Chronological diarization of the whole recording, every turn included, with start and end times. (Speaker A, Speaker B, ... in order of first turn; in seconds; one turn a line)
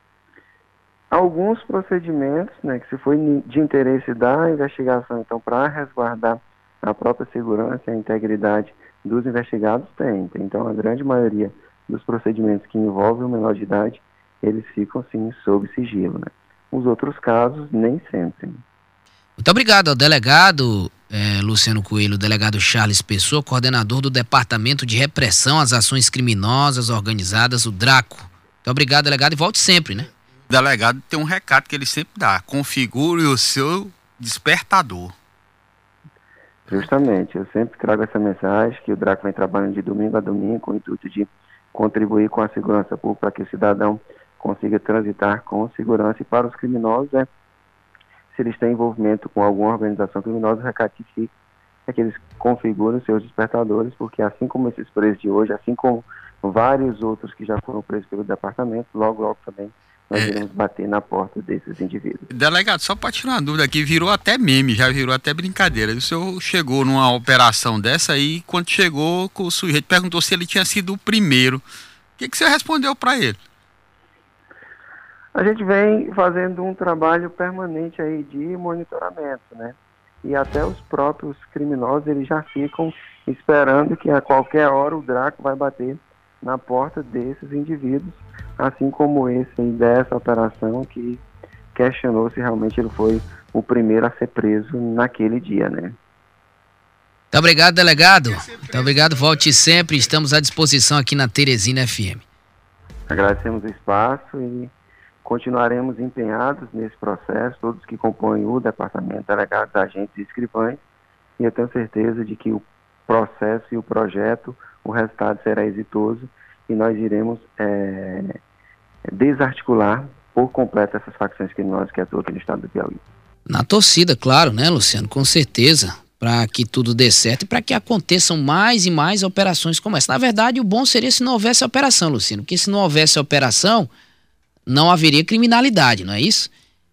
Speaker A: 1.1-18.6
Speaker B: 19.4-30.1
Speaker C: 30.5-35.1
Speaker A: 36.7-47.3
Speaker A: 48.3-51.3
Speaker A: 51.9-62.3
Speaker C: 60.1-60.4
Speaker C: 62.3-71.6
Speaker C: 72.2-73.4
Speaker A: 75.3-91.2
Speaker A: 91.7-96.0
Speaker B: 97.3-102.2
Speaker A: 103.1-104.7
Speaker A: 105.2-110.8
Speaker A: 111.4-118.3
Speaker A: 119.1-123.0
Speaker B: 123.5-133.9
Speaker B: 134.7-136.5